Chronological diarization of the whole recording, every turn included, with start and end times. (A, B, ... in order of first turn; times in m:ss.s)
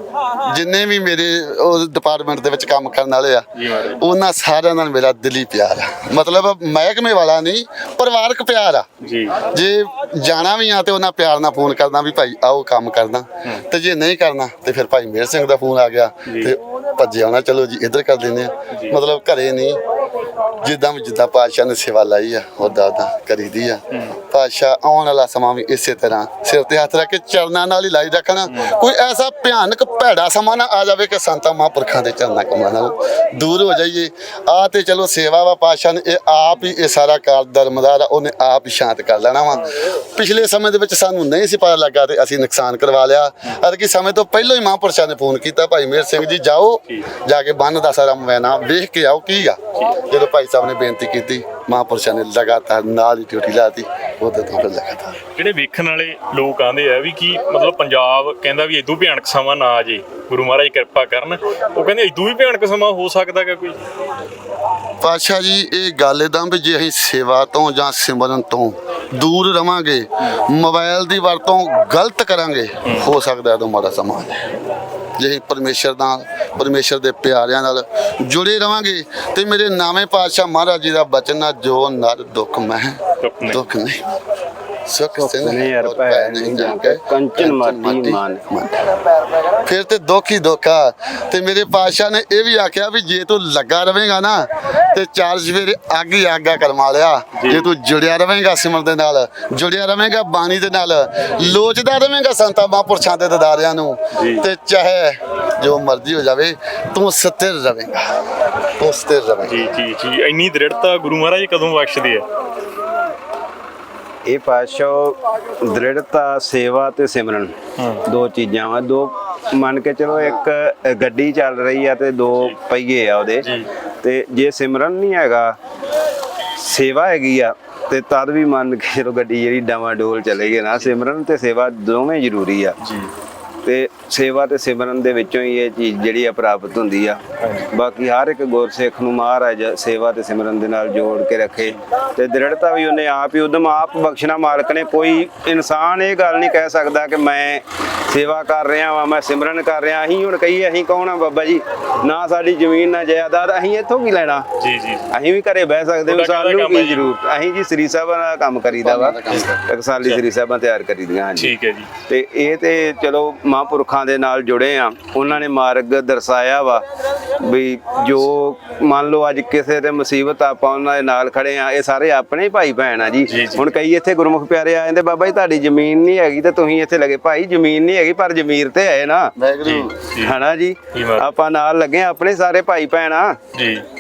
0:00.4-0:08.9 A
0:03.6-0:04.0 B
0:09.0-0:09.4 B
0:09.4-0:19.8 A
0:16.3-0:16.5 B
0:20.6-0:55.2 A
0:28.5-0:28.7 B
0:55.4-1:03.8 B
1:05.0-1:14.6 A
1:12.8-1:13.1 B
1:15.2-1:24.1 A
1:23.2-1:23.6 B
1:24.9-1:28.9 A
1:25.2-1:28.4 C
1:29.6-1:48.1 A
1:37.4-1:37.7 B
1:44.1-1:44.5 B
1:48.8-1:49.6 A
1:49.5-1:52.2 B
1:54.3-2:03.5 C
2:00.1-2:00.4 A
2:03.4-2:03.7 B
2:04.0-2:05.6 C
2:06.6-2:12.8 C
2:10.3-2:10.9 B
2:12.8-2:13.1 B
2:13.6-2:34.5 C
2:17.4-2:17.7 B
2:34.6-2:35.1 B
2:35.1-2:41.5 C
2:36.1-2:37.0 B
2:38.7-2:39.7 A
2:41.4-2:41.9 B
2:42.1-2:46.8 C
2:47.4-2:59.3 C
2:53.3-2:53.7 B
2:59.4-3:00.0 A
2:59.6-3:00.3 B
3:00.2-3:03.4 C
3:00.9-3:01.3 B
3:03.6-3:03.8 B